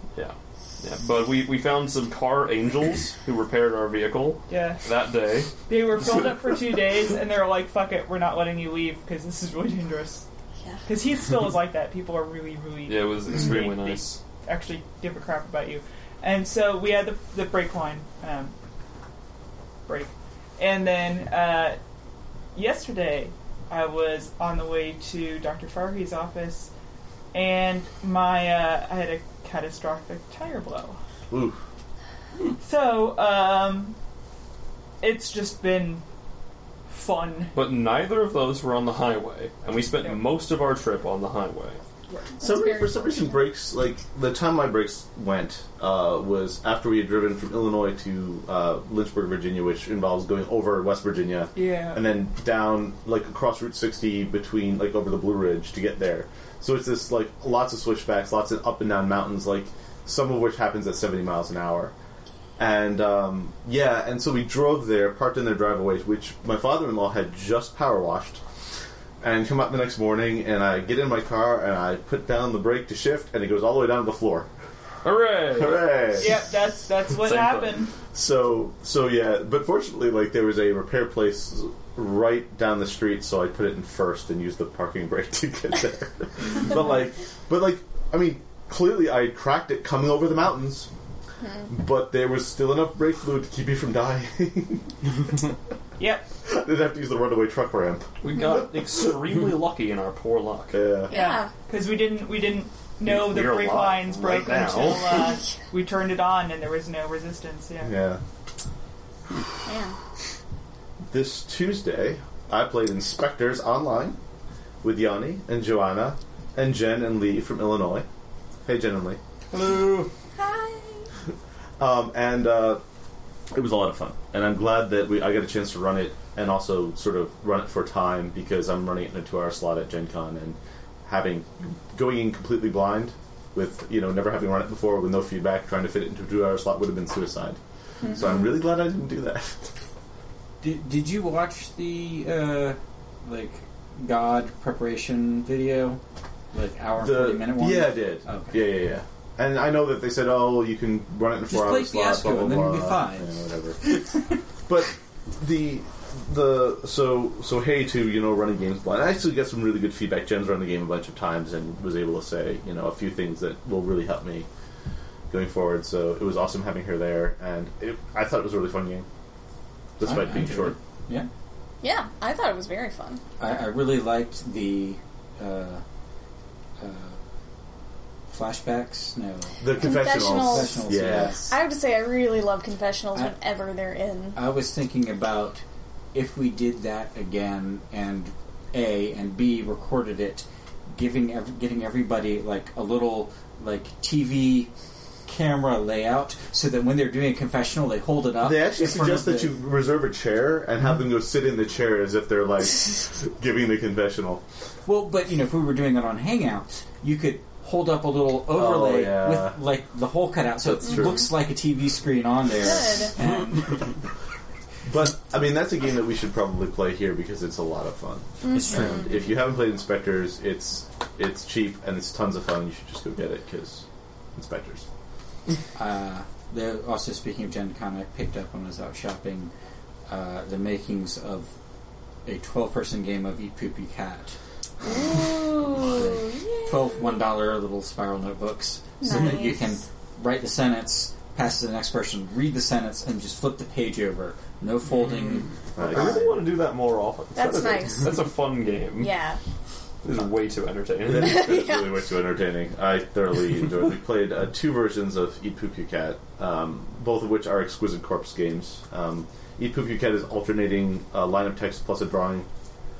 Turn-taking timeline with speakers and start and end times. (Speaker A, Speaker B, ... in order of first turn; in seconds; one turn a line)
Speaker A: 0.1-5.5
Speaker B: 4.5-4.8
Speaker B: 5.7-10.2
Speaker B: 10.8-18.5
Speaker A: 12.9-14.2
Speaker B: 19.9-21.8
Speaker B: 22.5-26.7
Speaker B: 27.3-31.0
Speaker C: 31.3-31.6
Speaker B: 32.6-34.0
Speaker B: 35.0-36.0
Speaker B: 36.9-37.5
Speaker A: 37.5-41.8
Speaker D: 42.4-43.4
Speaker C: 42.4-61.9
Speaker B: 51.5-52.0
Speaker C: 62.6-68.4
Speaker C: 69.2-74.5
Speaker A: 75.0-76.3
Speaker C: 75.5-76.3
Speaker B: 76.2-77.9
Speaker A: 77.2-77.8
Speaker C: 78.1-90.9
Speaker D: 91.4-91.7
Speaker C: 91.7-94.9
Speaker B: 96.0-96.3
Speaker C: 96.5-98.2
Speaker A: 98.2-100.8
Speaker C: 100.7-101.1
Speaker D: 101.1-101.5
Speaker B: 101.1-107.9
Speaker A: 103.0-105.3
Speaker C: 107.8-108.2
Speaker D: 109.6-110.0
Speaker C: 111.1-114.2
Speaker C: 114.8-118.0
Speaker C: 118.6-119.2
Speaker E: 119.5-120.1
Speaker D: 120.4-121.1
Speaker C: 121.8-122.8
Speaker C: 123.5-139.7
Speaker D: 138.0-138.5
Speaker E: 140.6-146.0
Speaker E: 146.5-148.7
Speaker C: 147.0-153.8
Speaker E: 151.5-153.3
Speaker E: 153.8-154.2
Speaker C: 154.7-164.5
Speaker C: 165.3-169.1
Speaker C: 170.0-170.8
Speaker E: 170.0-171.3
Speaker D: 171.8-173.2
Speaker E: 173.4-175.8
Speaker E: 176.8-177.2
Speaker E: 178.3-181.4
Speaker C: 179.6-181.5
Speaker D: 179.8-184.4
Speaker E: 184.3-185.6
Speaker E: 186.1-194.7
Speaker E: 195.2-199.6
Speaker C: 198.4-204.4
Speaker E: 204.8-213.9
Speaker C: 208.5-209.6
Speaker C: 210.6-211.3
Speaker D: 212.6-213.1
Speaker C: 214.8-223.8
Speaker D: 218.4-219.1
Speaker E: 218.5-219.4
Speaker C: 224.3-224.8
Speaker E: 225.8-229.5
Speaker E: 230.1-231.5
Speaker E: 232.2-246.3
Speaker D: 234.8-237.1
Speaker D: 239.0-239.7
Speaker C: 245.8-246.4
Speaker A: 245.8-249.1
Speaker D: 247.3-248.3
Speaker D: 248.9-249.4
Speaker A: 250.0-251.6
Speaker C: 251.0-262.5
Speaker D: 251.1-251.9